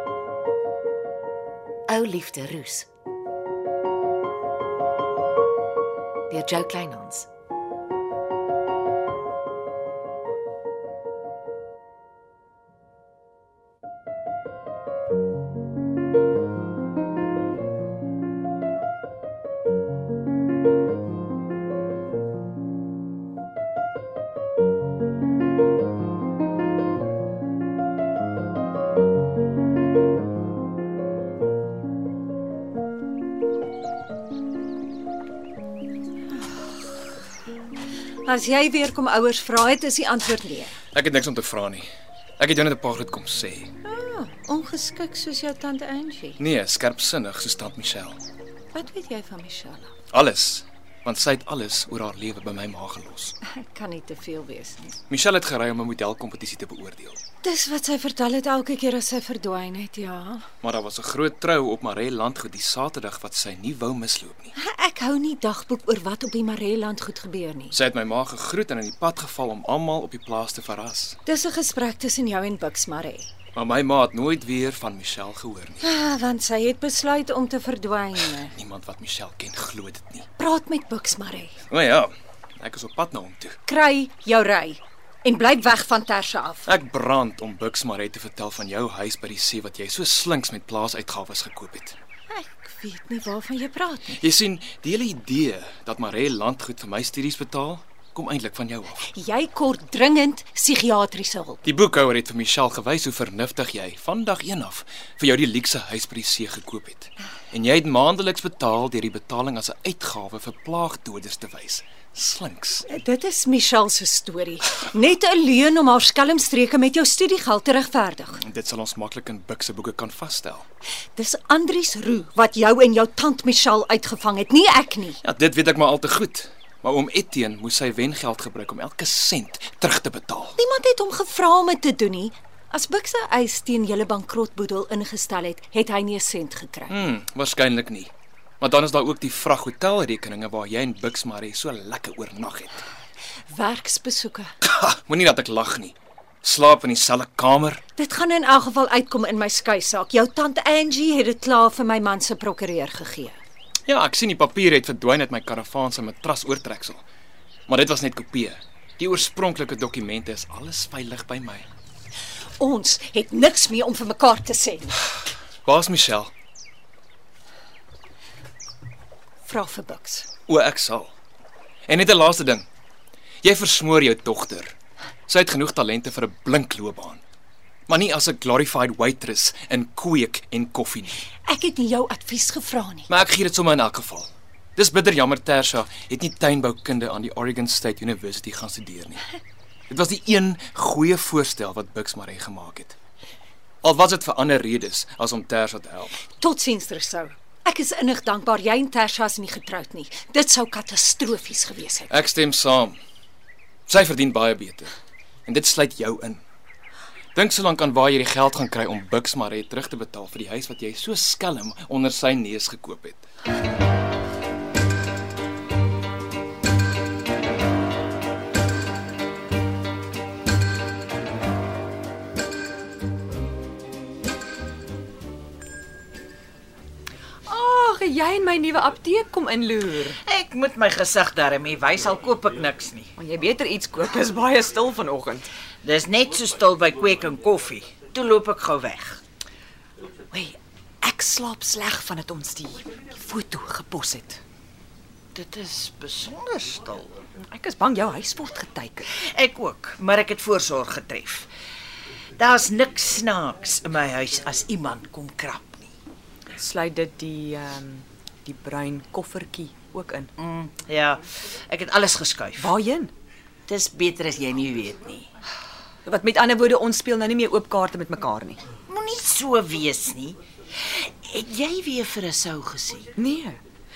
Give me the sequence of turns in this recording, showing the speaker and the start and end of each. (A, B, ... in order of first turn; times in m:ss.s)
0:01.9-0:02.9 A
0:06.3-0:07.3 A
0:38.2-0:40.7 B
0:40.9-0:41.9 C
0:42.4-0:43.7 C
0:43.8-0:46.4 B
0:46.4-0:48.2 C
0:48.7-0:49.9 B
0:50.1-0:53.4 C
0:53.4-0:55.0 B
0:55.1-0:57.2 C
0:57.4-1:00.4 B
1:00.6-1:04.5 C
1:04.6-1:07.8 B
1:07.7-1:11.2 C
1:11.2-1:13.3 B
1:13.5-1:15.8 C
1:15.8-1:18.5 B
1:18.4-1:20.3 C
1:20.4-1:21.6 B
1:21.7-1:23.6 C
1:23.6-1:26.7 B
1:26.6-1:32.0 C
1:32.3-1:34.2 B
1:34.1-1:39.0 C
1:39.0-1:41.6 B
1:41.6-1:52.8 C
1:52.9-1:58.4 B
1:58.4-2:00.6 C
2:01.1-2:05.2 B
2:05.2-2:10.6 C
2:10.6-2:17.0 B
2:16.9-2:22.8 C
2:23.5-2:24.5 B
2:24.6-2:27.8 C
2:28.0-2:33.4 B
2:33.9-2:37.0 C
2:37.7-2:41.7 C
2:42.6-2:45.0 B
2:45.6-2:46.3 C
2:49.4-2:50.3 B
2:50.5-2:51.1 C
2:51.9-2:52.6 C
2:53.4-2:54.7 C
2:55.3-2:57.2 C
2:57.9-3:01.2 C
3:01.4-3:03.1 B
3:03.1-3:09.2 C
3:09.9-3:13.0 C
3:13.8-3:16.2 C
3:16.4-3:22.1 B
3:22.1-3:23.0 C
3:23.9-3:24.9 C
3:25.4-3:26.4 C
3:27.3-3:33.2 C
3:47.5-3:50.1 D
3:50.1-3:53.1 E
3:53.5-3:55.4 D
3:55.8-3:59.2 E
4:01.1-4:04.4 D
4:05.3-4:07.2 E
4:07.5-4:09.0 D
4:09.1-4:11.5 E
4:12.4-4:15.9 E
4:16.6-4:20.3 D
4:20.4-4:22.7 E
4:22.7-4:23.1 D
4:23.7-4:25.3 E
4:26.1-4:28.6 D
4:28.9-4:33.1 E
4:33.2-4:33.6 D